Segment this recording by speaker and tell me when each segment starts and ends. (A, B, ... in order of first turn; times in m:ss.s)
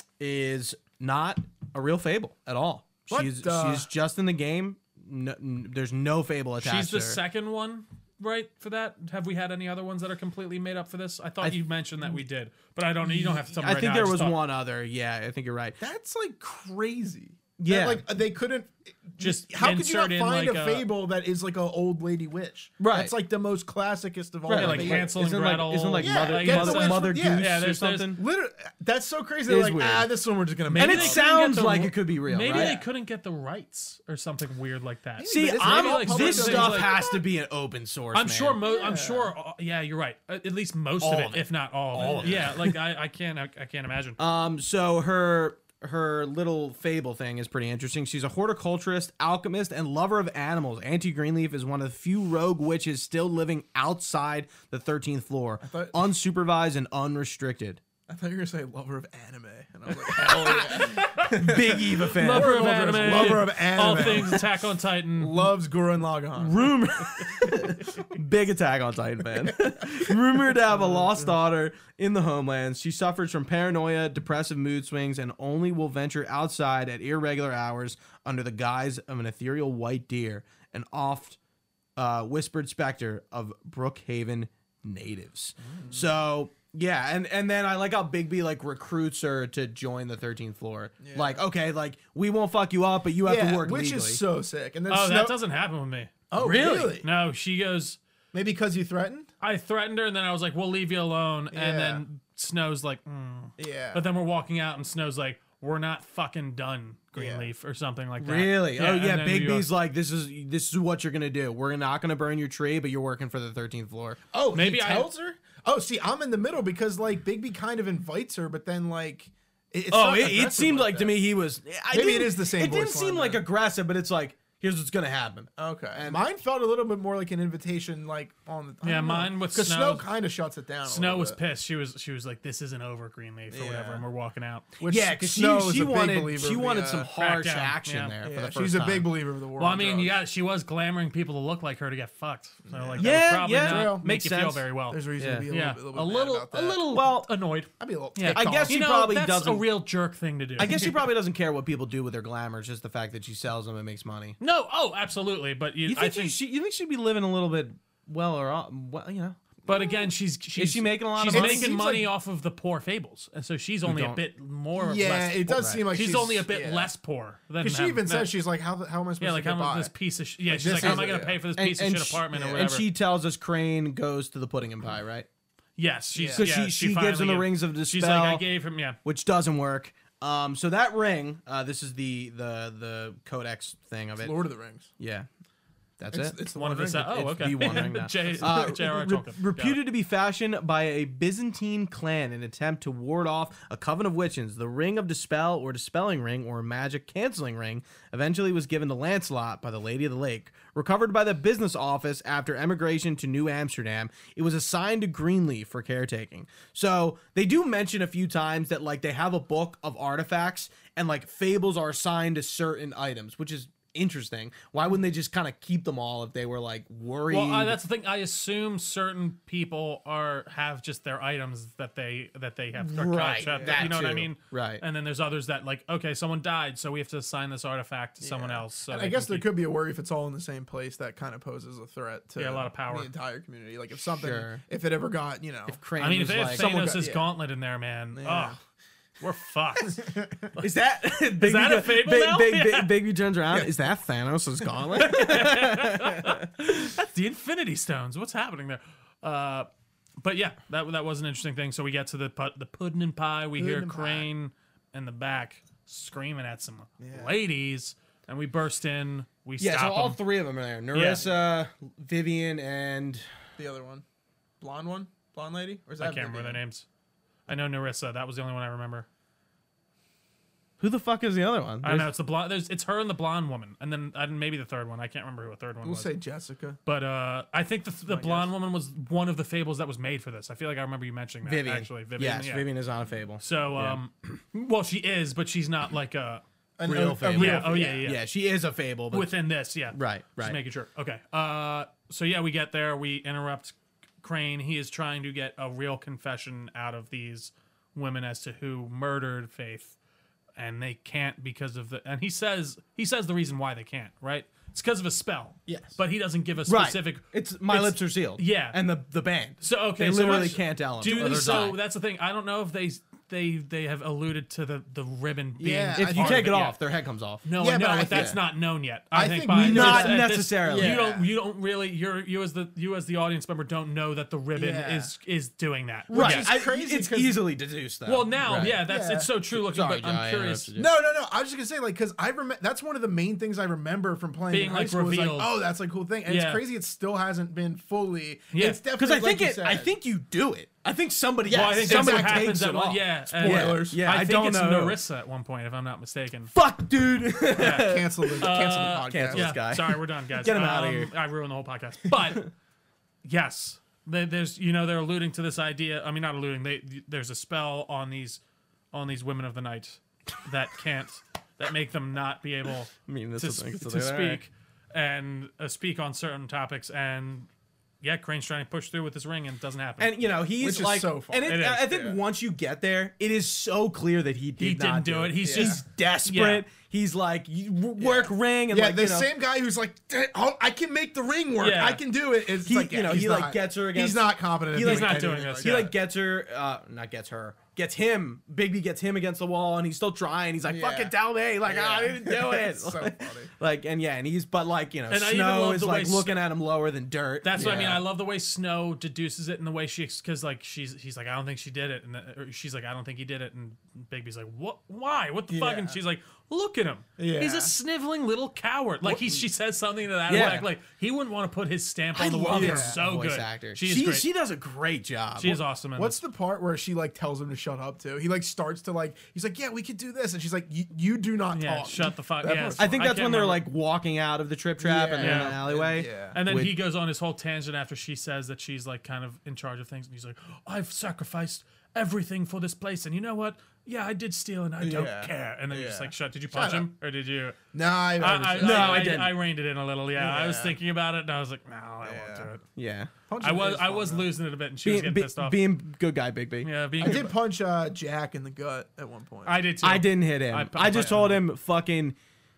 0:00.2-0:07.2 A
0:03.1-0:03.9 B
0:06.6-0:14.4 C
0:13.1-0:15.8 A
0:15.8-0:25.2 B
0:17.6-0:18.0 A
0:19.2-0:20.9 C
0:22.8-0:23.1 A
0:24.5-0:28.2 A
0:24.5-0:28.1 C
0:26.0-0:27.5 B
0:28.2-0:31.2 B
0:29.5-0:30.1 A
0:30.7-0:37.0 C
0:30.8-0:32.8 A
0:32.5-0:32.8 B
0:35.2-0:37.2 B
0:35.3-0:38.6 A
0:38.1-0:44.2 C
0:38.6-0:39.3 B
0:41.0-0:42.8 A
0:42.0-0:42.3 B
0:44.2-0:57.8 A
0:55.6-0:56.0 B
0:58.1-1:07.7 B
1:00.2-1:04.2 A
1:00.8-1:05.5 C
1:06.4-1:21.4 A
1:22.0-1:34.2 A
1:25.7-1:26.1 B
1:31.0-1:31.4 B
1:33.2-1:35.4 B
1:34.9-1:38.0 C
1:36.3-1:37.1 B
1:36.4-1:36.9 A
1:38.3-1:39.3 B
1:39.4-1:49.7 C
1:41.5-1:42.0 B
1:43.6-1:44.1 B
1:47.2-1:47.5 B
1:48.2-1:54.2 A
1:54.3-2:01.2 B
1:54.5-1:55.1 C
1:59.9-2:06.2 A
2:01.9-2:03.4 B
2:05.6-2:11.4 B
2:08.8-2:10.1 C
2:10.9-2:14.7 C
2:13.5-2:14.0 B
2:14.8-2:17.1 B
2:14.8-2:19.1 A
2:17.2-2:18.2 C
2:18.2-2:20.2 B
2:19.6-2:31.0 C
2:22.7-2:24.1 B
2:23.0-2:24.6 A
2:24.9-2:26.9 B
2:25.2-2:25.5 A
2:26.9-2:27.3 A
2:27.8-2:28.8 B
2:28.3-2:29.7 A
2:30.6-2:34.4 A
2:34.4-2:36.4 C
2:35.9-2:39.4 A
2:39.7-2:48.3 C
2:39.7-2:40.1 B
2:40.6-2:41.7 A
2:41.3-2:42.1 B
2:43.8-2:44.2 A
2:44.8-2:46.9 B
2:45.5-2:45.8 A
2:47.6-2:49.9 B
2:49.2-2:52.9 C
2:50.5-2:51.4 B
2:50.7-2:55.3 A
2:52.3-2:52.6 B
2:55.8-2:59.0 C
2:56.2-2:56.5 B
2:56.4-2:58.4 A
2:59.0-3:04.4 A
3:04.2-3:04.9 B
3:05.0-3:05.3 A
3:06.0-3:06.4 A
3:06.1-3:08.7 B
3:06.5-3:09.8 C
3:07.1-3:37.8 A
3:37.3-3:49.5 C
3:42.8-3:44.8 A
3:43.4-3:44.0 B
3:48.2-3:55.8 B
3:52.4-3:53.1 C
3:54.2-3:54.6 A
3:55.7-3:56.7 A
3:56.0-3:58.6 C
3:56.4-3:57.3 B
3:58.1-3:58.6 B
3:59.2-4:00.6 C
3:59.8-4:00.5 B
4:00.6-4:06.5 A
4:01.3-4:02.9 C
4:05.0-4:09.7 C
4:10.2-4:20.2 C
4:13.6-4:14.3 B
4:17.0-4:17.3 B
4:19.6-4:23.3 A
4:20.9-4:21.2 C
4:23.6-4:24.0 B
4:24.6-4:26.6 B
4:26.0-4:26.9 C
4:27.5-4:29.1 C
4:30.8-4:32.1 A
4:31.8-4:36.1 C
4:35.8-4:36.8 B
4:36.9-4:42.7 C
4:38.1-4:38.5 B
4:41.4-4:44.0 A
4:43.4-4:46.4 C
4:46.8-4:48.1 B
4:46.8-4:49.4 A
4:47.3-4:48.2 C
4:49.1-5:00.0 C
4:49.9-4:50.6 A
5:00.6-5:08.8 C
5:05.7-5:05.9 B
5:06.7-5:11.8 A
5:09.6-5:16.8 C
5:11.0-5:11.7 B
5:15.6-5:16.5 B
5:16.0-5:17.5 A
5:17.4-5:26.5 C
5:17.6-5:18.4 B
5:18.1-5:18.4 A
5:19.1-5:21.3 B
5:19.6-5:21.0 A
5:24.6-5:25.1 B
5:26.1-5:27.4 B
5:26.1-5:28.8 A
5:28.1-5:30.7 C
5:28.5-5:29.3 B
5:29.5-5:30.9 A
5:30.8-5:39.9 B
5:34.5-5:35.5 C
5:36.3-5:36.6 C
5:38.5-5:38.8 C
5:39.0-5:45.0 A
5:41.5-5:46.5 C
5:41.7-5:42.6 B
5:43.3-5:44.0 B
5:46.5-5:51.1 A
5:47.5-5:52.5 C
5:47.6-5:49.6 B
5:53.2-5:58.4 C
5:58.9-6:07.5 C
6:03.1-6:04.4 A
6:08.0-6:10.1 C
6:10.0-6:19.3 A
6:10.6-6:12.2 B
6:11.5-6:11.9 C
6:14.6-6:16.6 C
6:15.4-6:15.8 B
6:18.0-6:25.9 B
6:21.6-6:22.0 C
6:22.6-6:38.0 A
6:24.8-6:25.9 C
6:30.6-6:33.5 B
6:35.1-6:36.4 C
6:37.4-6:54.3 C
6:37.6-6:38.0 B
6:45.5-6:46.0 B
6:47.2-6:47.7 B
6:49.0-6:49.4 B
6:50.3-6:50.7 A
6:52.1-6:55.6 A
6:52.5-6:53.0 B
6:55.4-6:56.2 C
6:56.0-7:03.0 B
7:01.5-7:03.6 C
7:02.8-7:06.8 A
7:04.8-7:06.4 B
7:05.2-7:05.6 C
7:06.3-7:17.6 C
7:14.8-7:16.9 B
7:17.7-7:19.3 B
7:18.2-7:22.6 C
7:18.6-7:19.4 A
7:20.2-7:20.8 B
7:22.0-7:22.5 B
7:22.8-7:23.1 A
7:23.3-7:24.3 B
7:23.4-7:25.6 C
7:24.8-7:26.7 A
7:26.6-7:27.3 C
7:27.0-7:29.6 B
7:29.5-7:31.4 C
7:29.8-7:32.2 A
7:30.9-7:31.2 B